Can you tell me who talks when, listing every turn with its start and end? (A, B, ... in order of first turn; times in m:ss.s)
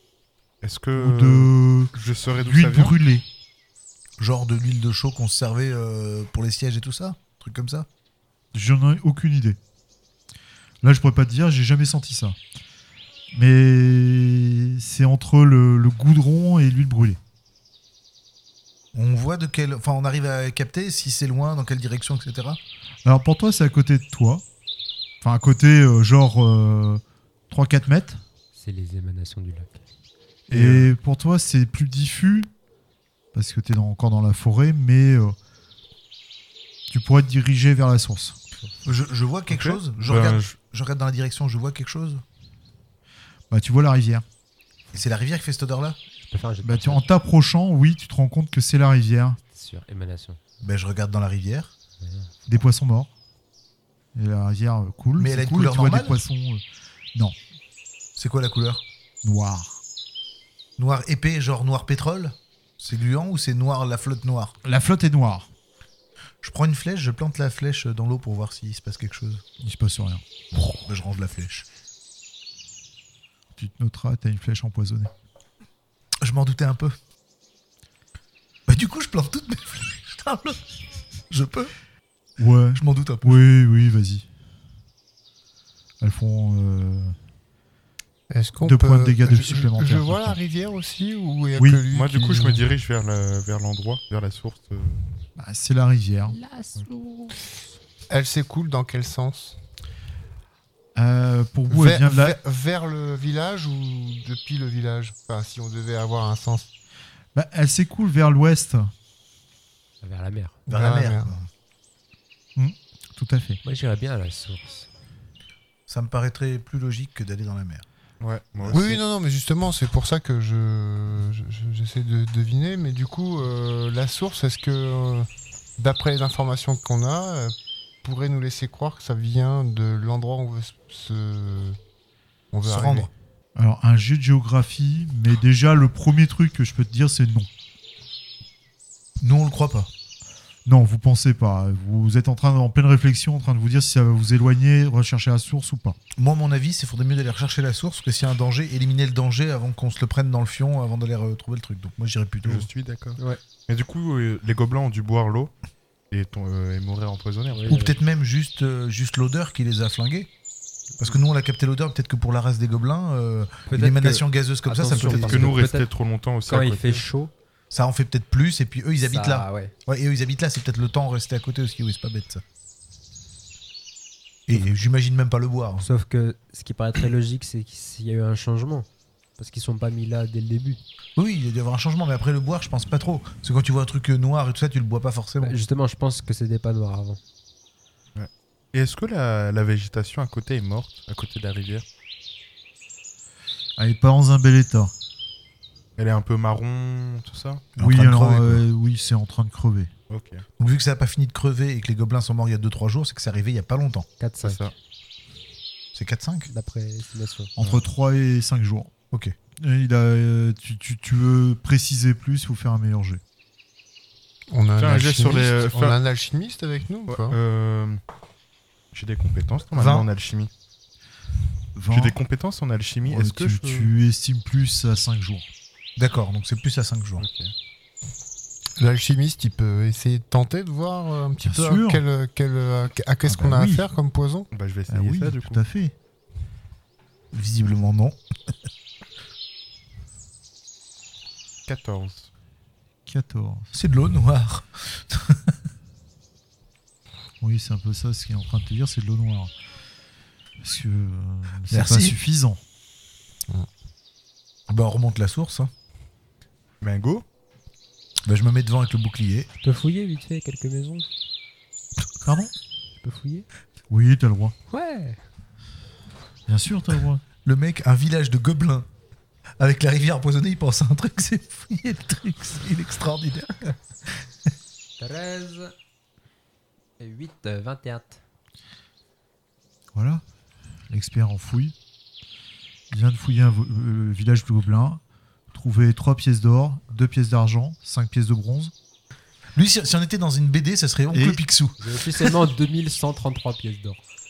0:00.6-0:03.0 A
0:00.9-0:03.2 B
0:04.2-0:07.9 C
0:08.5-0:09.6 B
0:10.8-0:12.4 B
0:13.3-0:17.2 B
0:18.9-0:22.6 C
0:23.0-0:24.4 B
0:25.2-0:28.2 B
0:28.5-0:29.8 D
0:30.5-0:32.5 B
0:30.5-0:30.9 A
0:33.3-0:35.4 B
0:36.9-0:38.4 B
0:38.8-0:42.2 C
0:39.5-0:40.5 A
0:43.5-0:44.2 B
0:44.9-0:46.0 C
0:46.2-0:47.0 D
0:46.6-0:49.4 B
0:49.5-0:50.4 D
0:50.6-0:51.7 C
0:52.0-0:52.3 D
0:52.5-0:53.1 B
0:54.1-0:56.6 B
0:55.2-0:56.2 C
0:58.2-0:58.8 C
0:59.2-0:59.8 B
1:00.8-1:04.6 C
1:04.6-1:05.5 B
1:06.4-1:09.4 C
1:09.6-1:10.2 B
1:10.7-1:11.6 C
1:13.6-1:15.1 B
1:16.2-1:17.0 C
1:18.7-1:20.6 C
1:21.3-1:21.7 C
1:22.4-1:24.3 B
1:22.8-1:23.4 C
1:26.0-1:27.2 B
1:28.3-1:32.6 E
1:28.6-1:30.4 B
1:31.6-1:31.8 B
1:31.9-1:35.0 A
1:35.4-1:36.4 B
1:36.3-1:37.4 D
1:38.1-1:39.6 E
1:40.9-1:42.4 B
1:41.7-1:46.7 E
1:47.3-1:48.9 B
1:50.0-1:50.6 D
1:50.7-1:51.5 C
1:50.7-1:51.3 E
1:52.6-1:53.6 B
1:53.6-1:54.9 D
1:55.9-1:57.8 C
1:58.2-1:59.0 A
1:58.7-2:11.8 E
2:12.5-2:13.1 E
2:12.6-2:13.1 C
2:13.6-2:17.5 B
2:19.2-2:19.9 C
2:20.6-2:26.0 B
2:26.2-2:32.7 C
2:32.4-2:35.5 A
2:36.1-2:37.8 A
2:37.5-2:37.9 D
2:37.7-2:40.3 C
2:41.0-2:45.6 C
2:43.7-2:45.9 D
2:44.9-2:47.0 A
2:46.5-2:47.3 D
2:47.7-2:52.4 C
2:49.0-2:49.7 D
2:54.5-2:55.8 C
2:55.8-2:58.9 D
2:59.4-3:00.8 D
3:01.2-3:05.6 C
3:05.4-3:07.2 D
3:08.1-3:11.8 A
3:13.8-3:14.9 B
3:16.0-3:17.7 A
3:17.8-3:18.6 C
3:17.8-3:19.9 B
3:20.1-3:20.4 A
3:20.6-3:24.1 C
3:24.2-3:24.6 D
3:24.4-3:24.7 A
3:25.9-3:26.5 C
3:26.5-3:27.5 D
3:27.6-3:28.9 B
3:29.6-3:33.2 B
3:34.5-3:37.4 E
3:34.8-3:36.0 A
3:37.1-3:38.0 A
3:38.9-3:40.5 A
3:39.7-3:40.1 C
3:41.7-3:42.2 B
3:41.9-3:43.9 A
3:43.0-3:45.5 B
3:46.0-3:47.2 C
3:47.2-3:47.5 A
3:48.8-3:54.5 E
3:51.4-3:52.0 B
3:53.2-3:53.9 B
3:54.5-3:55.6 A
3:54.9-3:55.9 B
3:57.3-3:58.2 C
4:01.7-4:02.3 A
4:03.0-4:03.7 B
4:03.7-4:05.5 C
4:07.4-4:09.5 B
4:10.6-4:12.6 B
4:11.7-4:12.2 C
4:14.7-4:15.7 C
4:16.8-4:17.2 A
4:18.2-4:19.5 C
4:19.6-4:21.0 D
4:22.2-4:22.5 B
4:23.0-4:23.5 D
4:23.9-4:24.5 B
4:24.7-4:25.2 D
4:26.5-4:27.2 B
4:27.4-4:28.9 C
4:29.6-4:33.7 C
4:35.0-4:35.7 D
4:37.0-4:38.2 D
4:39.9-4:40.2 B
4:40.9-4:41.7 B
4:42.9-4:45.0 B
4:45.5-4:48.7 B
4:49.5-4:51.8 C
4:51.1-4:51.4 B
4:51.8-4:54.0 D